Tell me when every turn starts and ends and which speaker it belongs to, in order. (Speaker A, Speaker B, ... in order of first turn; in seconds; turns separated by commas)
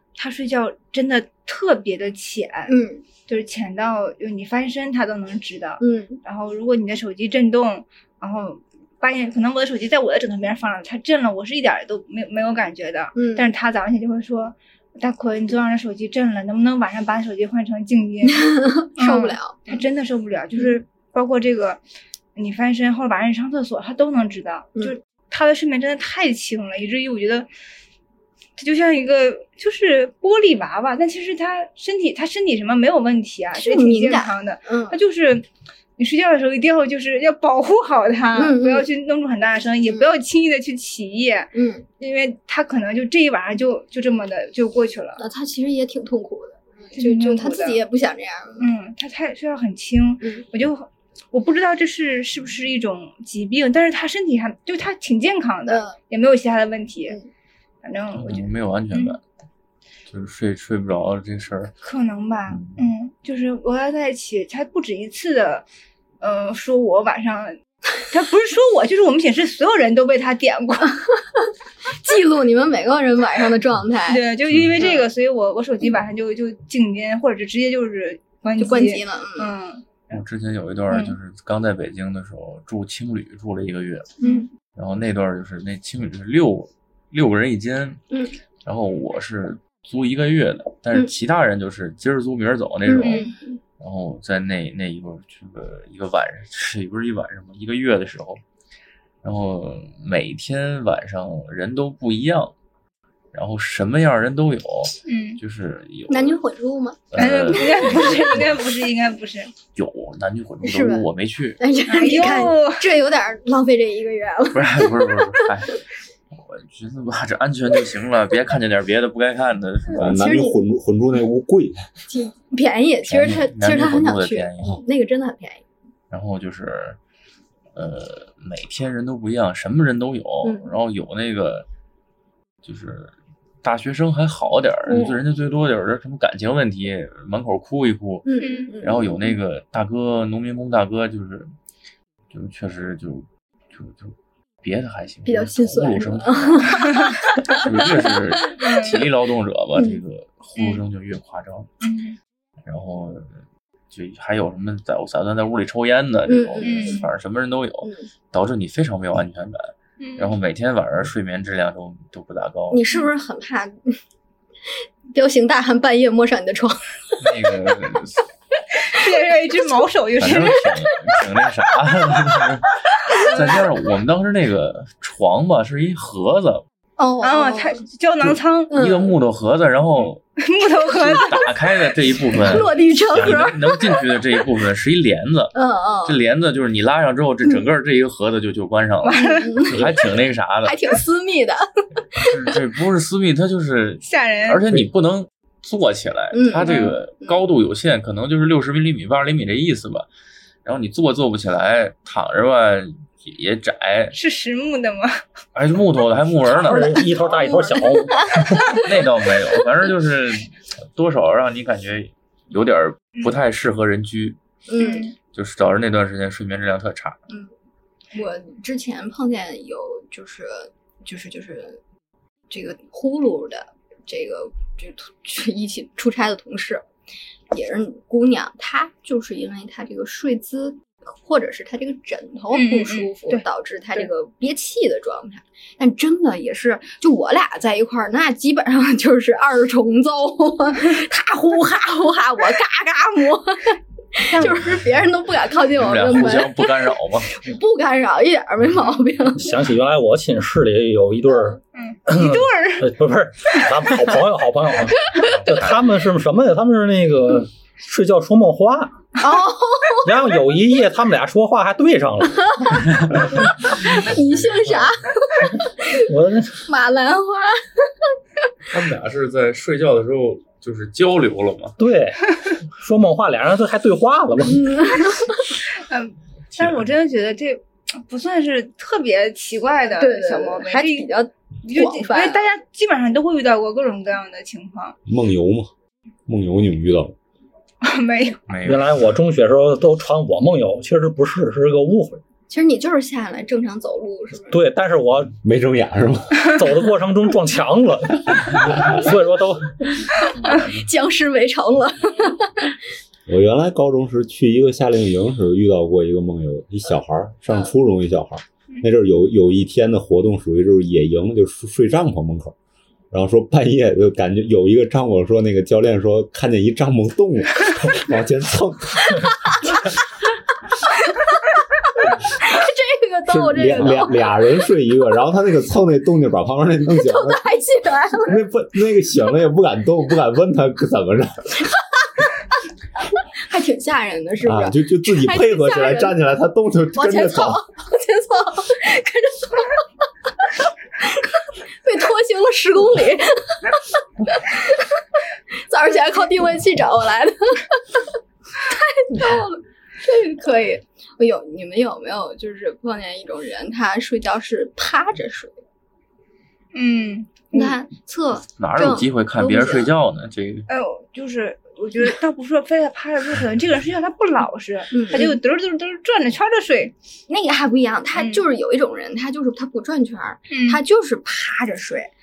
Speaker A: 0.2-2.7, Speaker B: 2.7-3.0, Speaker A: 3.3-21.8, Speaker B: 5.8-6.2, Speaker B: 13.2-13.5, Speaker B: 18.3-19.8, Speaker A: 22.4-27.5, Speaker A: 28.6-35.5, Speaker B: 33.6-35.0, Speaker A: 36.0-45.2, Speaker B: 38.4-38.9, Speaker B: 41.5-41.9, Speaker B: 45.2-48.7, Speaker A: 47.0-47.8, Speaker A: 48.6-57.2, Speaker B: 50.2-50.5, Speaker B: 55.7-56.0, Speaker A: 57.8-59.2, Speaker C: 58.1-59.2, Speaker C: 60.1-61.8, Speaker A: 61.8-65.7, Speaker C: 62.5-62.8, Speaker A: 66.2-67.6, Speaker A: 68.1-71.0, Speaker B: 71.3-74.3, Speaker A: 74.1-79.9, Speaker C: 74.5-75.0, Speaker B: 74.8-75.0, Speaker B: 78.6-79.5, Speaker C: 80.1-84.2, Speaker A: 80.9-81.2, Speaker A: 84.2-84.5, Speaker B: 84.2-84.5, Speaker C: 84.8-88.0, Speaker C: 88.6-93.3, Speaker B: 92.9-93.6, Speaker A: 93.0-93.3, Speaker C: 93.8-98.4, Speaker C: 99.2-102.5, Speaker C: 103.3-106.4, Speaker A: 105.0-105.4, Speaker B: 106.1-108.1, Speaker C: 107.1-108.6, Speaker A: 107.2-109.5, Speaker C: 109.8-111.6, Speaker B: 110.6-115.4, Speaker A: 111.9-112.9, Speaker C: 114.5-120.2, Speaker B: 119.9-120.6, Speaker D: 120.0-121.8, Speaker B: 122.1-125.6, Speaker C: 123.1-124.8, Speaker C: 126.1-127.0, Speaker C: 127.8-131.7, Speaker B: 130.4-130.7, Speaker C: 132.6-138.3, Speaker B: 134.9-135.2, Speaker B: 138.2-139.4, Speaker A: 138.4-138.7, Speaker C: 138.8-141.5, Speaker C: 142.3-146.9, Speaker B: 145.3-149.1, Speaker A: 146.9-147.2, Speaker C: 147.5-151.7, Speaker A: 148.6-149.0, Speaker A: 151.8-152.2, Speaker C: 152.7-153.3, Speaker C: 153.9-162.9, Speaker B: 156.3-157.0, Speaker A: 156.6-157.1, Speaker B: 157.8-158.1, Speaker A: 160.0-160.3, Speaker B: 162.7-164.0, Speaker B: 165.1-167.2, Speaker C: 167.2-168.2, Speaker A: 168.9-170.7, Speaker C: 170.2-176.6, Speaker A: 173.1-173.6, Speaker B: 177.0-177.8, Speaker A: 177.2-178.7, Speaker C: 178.2-180.2, Speaker B: 178.7-179.2, Speaker A: 180.4-181.5, Speaker C: 180.9-185.5, Speaker B: 182.3-184.0, Speaker B: 185.5-186.2, Speaker C: 186.1-190.8, Speaker A: 189.0-189.7, Speaker B: 189.2-190.0, Speaker B: 190.6-192.3, Speaker C: 192.2-200.1, Speaker A: 194.0-194.6, Speaker B: 196.3-197.4, Speaker A: 196.6-196.9, Speaker C: 200.7-204.2, Speaker A: 204.1-205.2, Speaker C: 205.6-206.9, Speaker B: 206.5-208.4, Speaker E: 206.5-208.8, Speaker C: 208.8-214.4, Speaker B: 214.7-215.1, Speaker A: 214.8-215.1, Speaker C: 215.3-217.2, Speaker B: 218.1-221.8, Speaker B: 222.5-226.8, Speaker B: 227.5-249.5, Speaker A: 232.5-234.1, Speaker A: 244.3-244.7, Speaker C: 245.7-247.3, Speaker E: 249.3-258.9, Speaker A: 251.8-252.9, Speaker C: 255.2-255.8, Speaker B: 259.2-260.2, Speaker E: 260.0-262.7, Speaker B: 262.5-262.9, Speaker B: 263.7-266.1, Speaker C: 264.2-264.9, Speaker E: 266.0-266.6, Speaker B: 266.7-267.9, Speaker C: 268.7-271.8, Speaker E: 271.8-272.2, Speaker E: 272.7-274.8, Speaker B: 274.5-275.5, Speaker A: 275.8-281.1, Speaker B: 279.9-282.5, Speaker A: 281.6-285.0, Speaker D: 285.1-285.7, Speaker D: 286.3-287.1, Speaker A: 287.8-288.4, Speaker C: 288.5-289.0, Speaker E: 288.6-292.2, Speaker B: 292.5-294.6, Speaker E: 294.5-295.4, Speaker D: 295.4-296.6, Speaker E: 296.4-299.7, Speaker B: 300.2-302.7, Speaker D: 303.3-312.6, Speaker D: 313.1-319.3, Speaker B: 319.5-319.8, Speaker B: 320.9-324.4, Speaker D: 323.3-327.4, Speaker B: 326.9-328.4, Speaker D: 328.2-331.6, Speaker B: 333.4-336.2, Speaker D: 334.4-337.6, Speaker B: 336.9-339.8, Speaker B: 341.0-345.0, Speaker B: 345.5-348.1, Speaker B: 348.6-355.6, Speaker A: 356.7-357.8, Speaker B: 357.5-359.9, Speaker C: 358.6-360.7, Speaker A: 360.7-366.9, Speaker B: 364.9-365.4, Speaker B: 367.3-372.1, Speaker A: 368.1-368.4, Speaker A: 370.5-370.8